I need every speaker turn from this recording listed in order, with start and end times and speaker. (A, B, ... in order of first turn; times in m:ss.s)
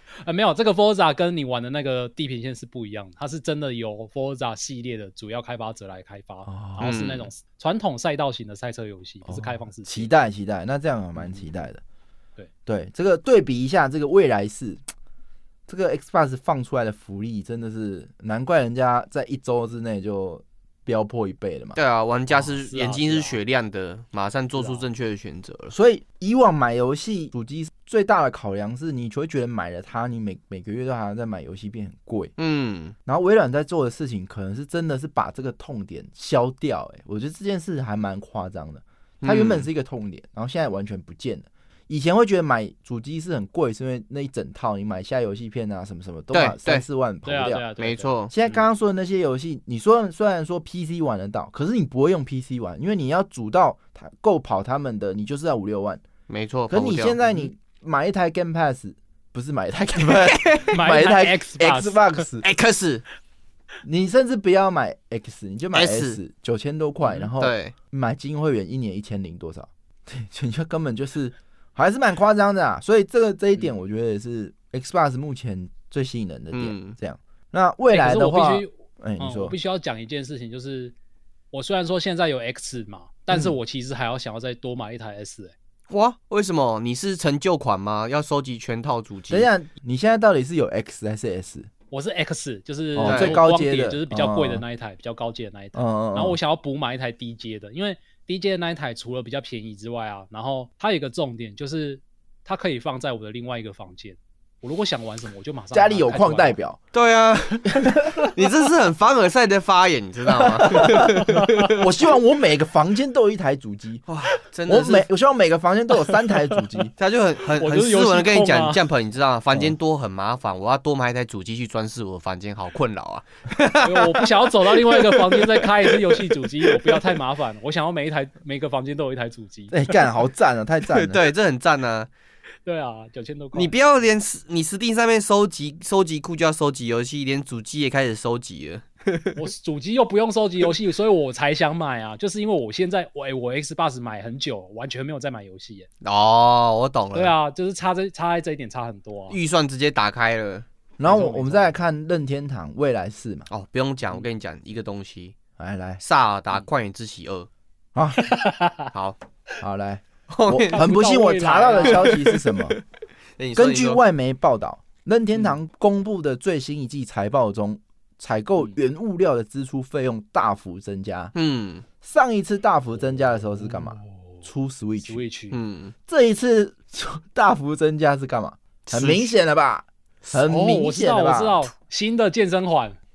0:00.2-0:10.1 A
0:06.5-0:06.8 B
0:06.8-0:07.3 C
0:09.2-0:11.8 B
0:11.2-0:11.5 A
0:12.6-0:14.8 B
0:15.7-0:21.8 B
0:21.8-0:25.7 C
0:22.3-0:23.4 A
0:24.5-0:24.8 A
0:25.7-0:32.3 B
0:32.4-0:32.9 C
0:33.0-0:47.6 B
0:39.2-0:39.7 C
0:46.3-0:46.8 C
0:47.2-0:48.6 A
0:47.8-0:48.3 C
0:48.3-0:56.0 B
0:56.3-0:57.2 C
0:56.7-1:02.4 B
1:00.2-1:00.7 C
1:00.7-1:02.2 A
1:02.4-1:03.0 C
1:03.8-1:19.6 B
1:05.7-1:06.2 C
1:07.4-1:07.7 C
1:16.5-1:17.0 C
1:17.9-1:20.9 A
1:21.5-1:25.5 A
1:25.9-1:29.5 C
1:29.3-1:31.7 B
1:31.9-1:46.6 A
1:32.9-1:34.6 B
1:33.0-1:33.4 C
1:35.7-1:36.4 B
1:45.7-1:46.8 B
1:46.9-1:51.7 C
1:47.7-1:48.3 B
1:50.4-1:54.0 B
1:50.7-1:51.7 A
1:54.1-1:55.0 C
1:54.7-1:56.9 B
1:57.0-2:07.0 C
1:57.5-1:58.8 A
2:03.8-2:10.0 A
2:09.7-2:11.2 B
2:10.9-2:12.1 C
2:12.6-2:13.8 A
2:13.5-2:19.4 C
2:19.4-2:25.9 A
2:26.0-2:27.3 C
2:27.1-2:29.4 A
2:29.3-2:30.6 C
2:31.0-2:33.5 B
2:31.0-2:31.8 A
2:33.5-2:35.4 C
2:35.6-2:36.0 B
2:36.0-2:37.5 C
2:37.9-2:38.2 B
2:38.2-2:38.9 A
2:38.9-2:39.2 C
2:39.6-2:42.8 B
2:40.3-2:40.9 C
2:40.7-2:42.2 A
2:41.8-2:42.8 C
2:43.4-2:44.0 C
2:43.6-2:51.3 B
2:51.3-2:51.8 C
2:52.0-2:55.2 B
2:53.2-2:54.4 A
2:55.0-2:55.6 A
2:55.5-2:55.9 C
2:56.1-3:01.7 B
2:58.9-2:59.3 C
3:00.4-3:03.0 A